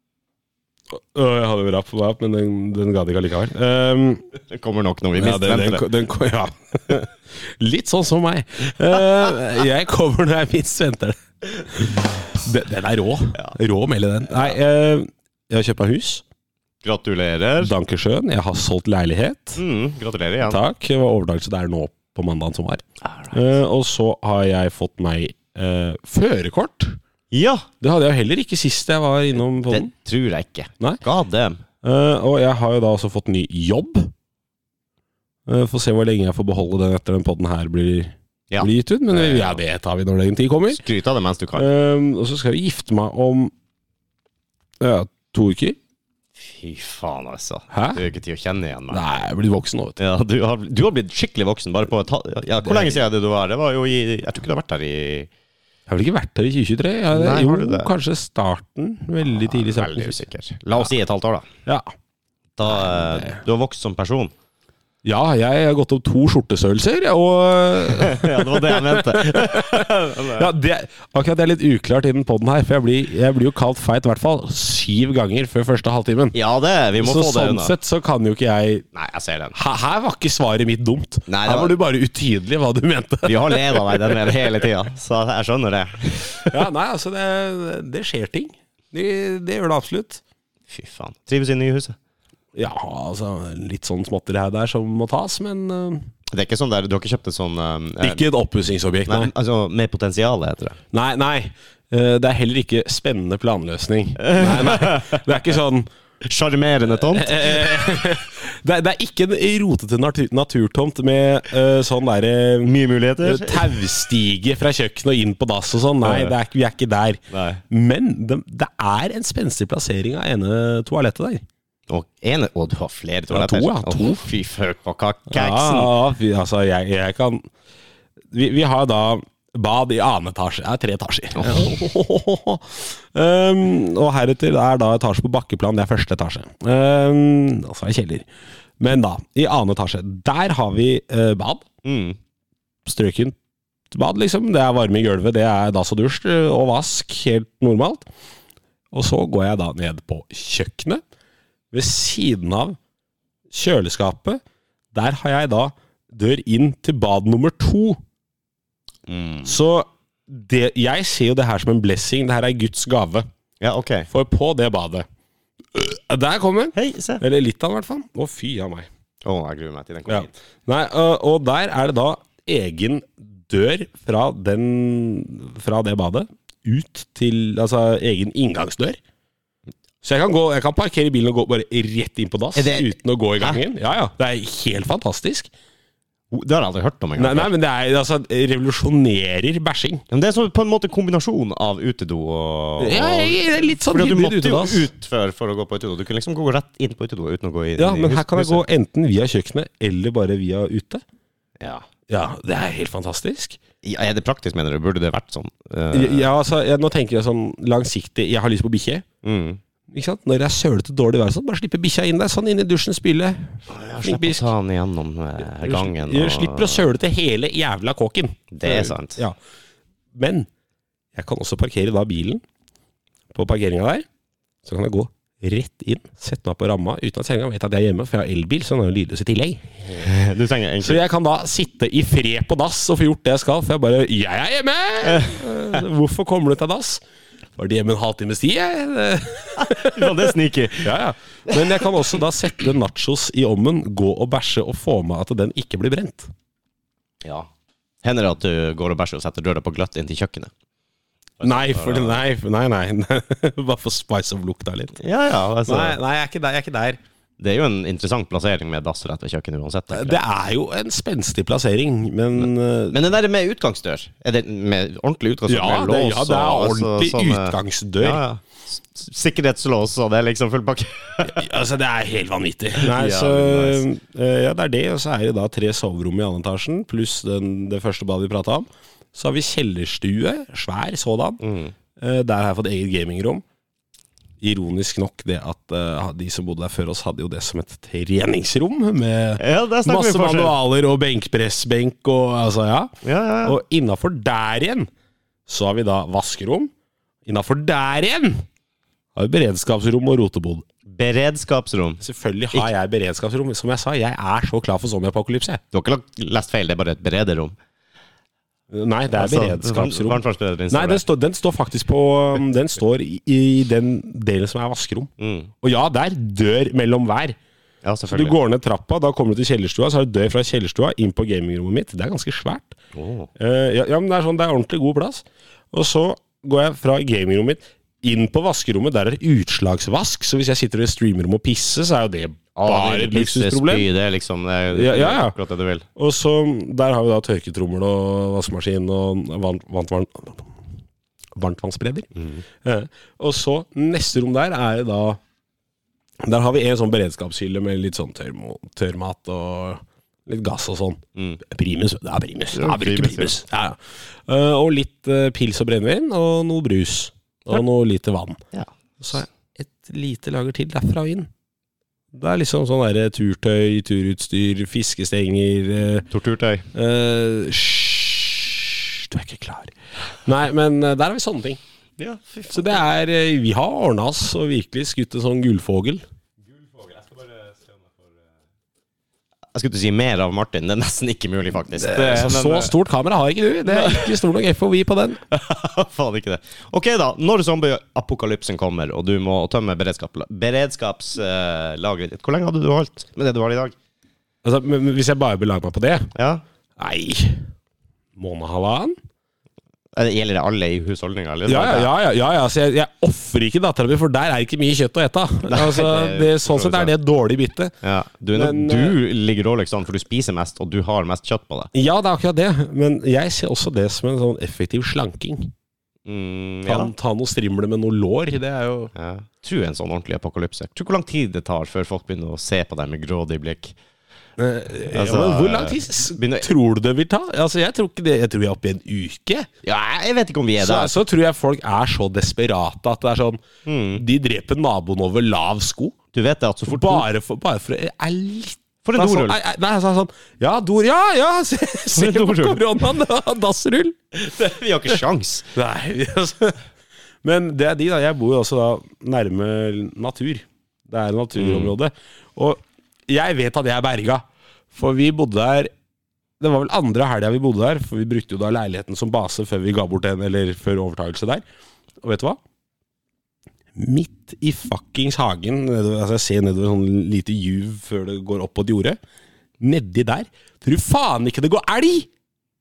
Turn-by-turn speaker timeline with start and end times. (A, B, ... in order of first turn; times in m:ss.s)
0:00.9-0:04.2 A
0:04.5-0:05.9 B
0:05.2-0:16.2 A
0:16.8-0:17.7 B
0:17.6-0:19.6 A
0:19.6-0:20.6 B
0:20.4-0:27.0 A
0:23.0-0:23.4 B
0:27.3-0:27.7 B
0:27.8-0:29.9 A
0:29.6-0:31.6 B
0:31.8-0:34.1 A
0:35.5-0:40.8 A
0:38.5-0:39.6 B
0:40.7-0:41.7 B
0:41.5-0:43.5 A
0:44.8-0:45.8 A
0:46.4-0:49.0 B
0:47.7-0:48.0 A
0:48.9-0:50.0 A
0:50.0-0:55.3 B
0:52.6-0:53.0 A
0:55.9-1:00.2 A
0:57.1-0:57.9 B
0:59.2-1:01.5 B
1:02.6-1:04.3 B
1:02.7-1:03.4 A
1:05.0-1:16.4 A
1:07.9-1:10.5 B
1:16.3-1:17.7 B
1:17.0-1:18.8 A
1:18.9-1:19.6 B
1:19.5-1:24.4 A
1:21.3-1:21.8 B
1:23.2-1:26.6 B
1:26.5-1:30.2 A
1:30.7-1:32.0 B
1:32.5-1:36.1 A
1:36.3-1:38.3 B
1:38.0-1:39.3 A
1:39.1-1:40.8 B
1:40.9-1:45.9 A
1:44.2-1:45.2 B
1:46.2-1:47.8 B
1:47.1-2:01.4 A
1:52.6-1:53.8 B
1:56.0-1:56.4 B
1:57.3-1:57.6 B
2:01.9-2:05.9 B
2:03.3-2:04.3 A
2:05.3-2:07.5 A
2:08.3-2:18.3 A
2:11.4-2:11.7 B
2:18.8-2:21.7 A
2:21.8-2:22.2 B
2:22.8-2:23.4 A
2:23.9-2:28.0 A
2:28.9-2:31.0 A
2:31.7-2:32.8 A
2:33.5-2:34.4 A
2:34.9-2:38.0 A
2:39.1-2:39.5 B
2:39.4-2:43.3 A
2:43.6-2:44.1 B
2:44.1-2:45.0 A
2:45.7-2:48.9 A
2:46.8-2:47.2 B
2:49.2-2:50.3 B
2:50.1-2:59.0 A
3:00.0-3:05.5 A
3:02.5-3:03.6 B
3:06.3-3:07.5 B
3:07.2-3:10.0 A
3:10.1-3:18.6 B
3:12.8-3:14.9 A
3:17.8-3:21.0 A
3:21.6-3:21.9 B
3:22.1-3:23.6 A
3:23.8-3:26.3 B
3:25.9-3:29.0 A
3:29.2-3:29.6 B
3:29.9-3:34.5 A
3:33.7-3:36.8 B
3:35.6-3:39.4 A
3:38.5-3:39.2 B
3:40.1-3:40.5 A
3:41.1-3:42.4 A
3:43.3-3:44.0 A
3:44.6-3:50.0 A
3:49.9-3:51.0 B
3:50.8-3:57.0 A
3:55.0-3:55.8 B
3:57.6-4:06.3 A
3:59.6-4:01.0 B
4:01.5-4:01.9 B
4:07.2-4:07.5 B
4:08.0-4:10.5 B
4:11.4-4:12.2 B
4:11.4-4:15.0 A
4:15.0-4:16.0 B
4:15.6-4:17.0 A
4:17.4-4:20.2 B
4:19.9-4:23.0 A
4:22.4-4:31.5 B
4:25.5-4:28.2 A
4:31.2-4:41.4 A
4:32.8-4:33.8 B
4:41.4-4:41.7 B
4:42.0-4:43.4 A
4:44.4-4:54.9 A
4:49.4-4:50.6 B
4:53.0-4:53.6 B
4:55.5-4:56.7 A
4:57.2-4:58.4 A
4:59.1-5:00.6 A
5:00.9-5:02.0 B
5:02.0-5:05.6 A
5:05.7-5:07.6 B
5:08.7-5:15.1 A
5:09.1-5:11.0 B
5:15.2-5:15.5 B
5:15.6-5:17.4 A
5:17.8-5:18.4 B
5:18.1-5:22.8 A
5:22.9-5:23.3 B
5:23.4-5:33.9 A
5:32.6-5:35.9 B
5:34.7-5:35.4 A
5:36.0-5:40.5 A
5:41.4-5:42.1 A
5:42.2-5:42.4 B
5:42.6-5:45.2 A
5:46.2-5:58.4 A
5:52.5-5:53.4 B
5:59.0-6:01.3 A
6:02.1-6:06.1 A
6:06.1-6:06.7 B
6:06.7-6:11.6 A
6:12.0-6:12.8 B
6:12.5-6:16.0 A
6:16.4-6:18.1 B
6:19.5-6:22.7 B
6:21.8-6:25.2 A
6:23.6-6:24.2 B
6:25.3-6:33.8 B
6:34.4-6:36.1 A
6:36.1-6:36.4 B
6:36.8-6:37.5 A
6:38.2-6:39.0 A
6:39.9-6:41.9 B
6:41.5-6:47.7 A
6:45.5-6:46.9 B
6:47.8-6:51.7 B
6:48.3-6:49.0 A
6:51.7-6:55.5 A
6:56.0-6:56.9 B
6:56.6-6:58.9 A
6:59.0-7:03.8 B
7:04.4-7:09.5 A
7:04.9-7:06.5 B
7:09.6-7:11.0 B
7:10.6-7:13.4 A
7:13.6-7:14.0 B
7:14.0-7:16.0 A
7:16.1-7:17.0 B
7:16.7-7:24.0 A
7:18.8-7:19.4 B
7:21.9-7:22.6 B
7:24.1-7:25.5 B
7:25.5-7:26.6 A
7:27.2-7:35.7 A
7:31.4-7:31.7 B
7:36.4-7:41.4 A
7:42.0-7:42.4 A
7:43.8-7:49.0 A
7:49.6-7:52.1 A